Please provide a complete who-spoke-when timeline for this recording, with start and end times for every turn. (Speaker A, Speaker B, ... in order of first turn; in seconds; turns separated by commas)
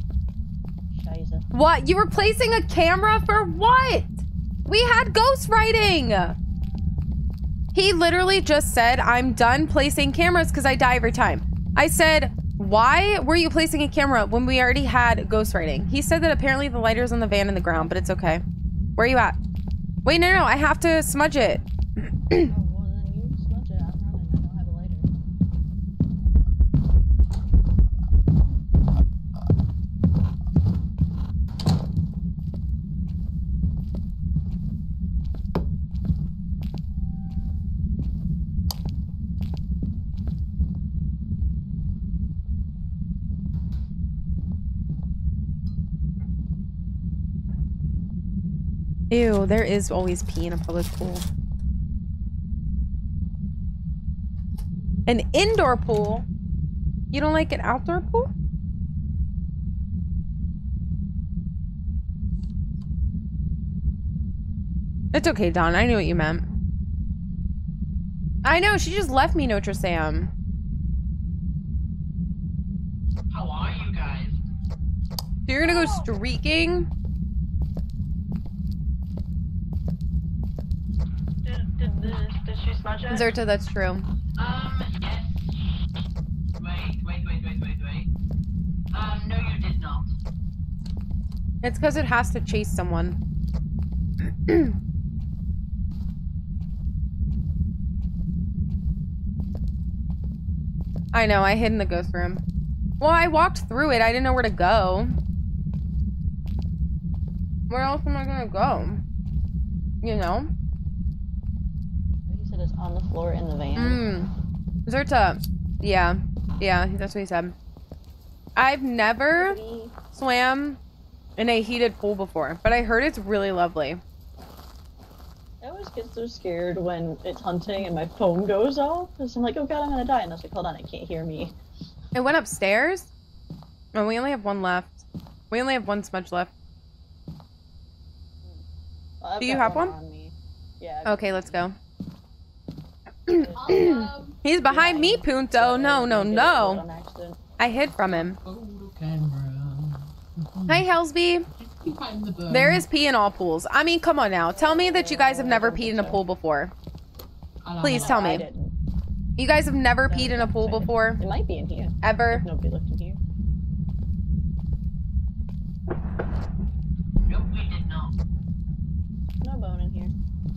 Speaker A: 0.9-1.4, Speaker B: 1.5-6.4, Speaker B: 7.7-18.4, Speaker B: 19.0-19.4, Speaker B: 20.1-21.6, Speaker A: 22.4-25.1, Speaker B: 49.1-51.2, Speaker B: 55.1-56.2, Speaker B: 57.1-58.3, Speaker B: 65.1-66.5, Speaker B: 68.4-70.3, Speaker C: 73.3-74.4, Speaker B: 75.5-76.9, Speaker A: 75.6-76.1, Speaker A: 81.5-83.4, Speaker B: 83.1-84.1, Speaker C: 84.4-85.5, Speaker C: 86.6-88.1, Speaker C: 88.9-90.1, Speaker B: 91.6-93.2, Speaker B: 94.5-94.8, Speaker B: 101.1-102.4, Speaker B: 103.0-105.1, Speaker B: 107.7-109.0, Speaker B: 110.0-110.5, Speaker A: 112.3-114.0, Speaker B: 113.8-114.3, Speaker B: 114.9-117.5, Speaker B: 118.6-119.6, Speaker A: 119.3-120.0, Speaker B: 120.1-120.8, Speaker B: 121.4-124.0, Speaker A: 125.6-131.5, Speaker B: 132.2-133.1, Speaker B: 133.9-136.5, Speaker A: 139.2-141.7, Speaker B: 139.4-139.9, Speaker B: 141.1-141.8, Speaker B: 143.3-146.8, Speaker A: 143.3-147.4, Speaker C: 143.5-144.4, Speaker B: 147.6-148.4, Speaker C: 148.1-150.9, Speaker B: 150.7-151.5, Speaker C: 151.5-152.9, Speaker B: 152.5-156.7, Speaker A: 154.5-156.2, Speaker C: 157.6-158.2, Speaker B: 157.8-158.4, Speaker A: 157.8-158.7, Speaker B: 159.4-161.2, Speaker A: 160.1-163.2, Speaker B: 162.0-162.4, Speaker C: 167.2-168.1, Speaker A: 169.4-170.1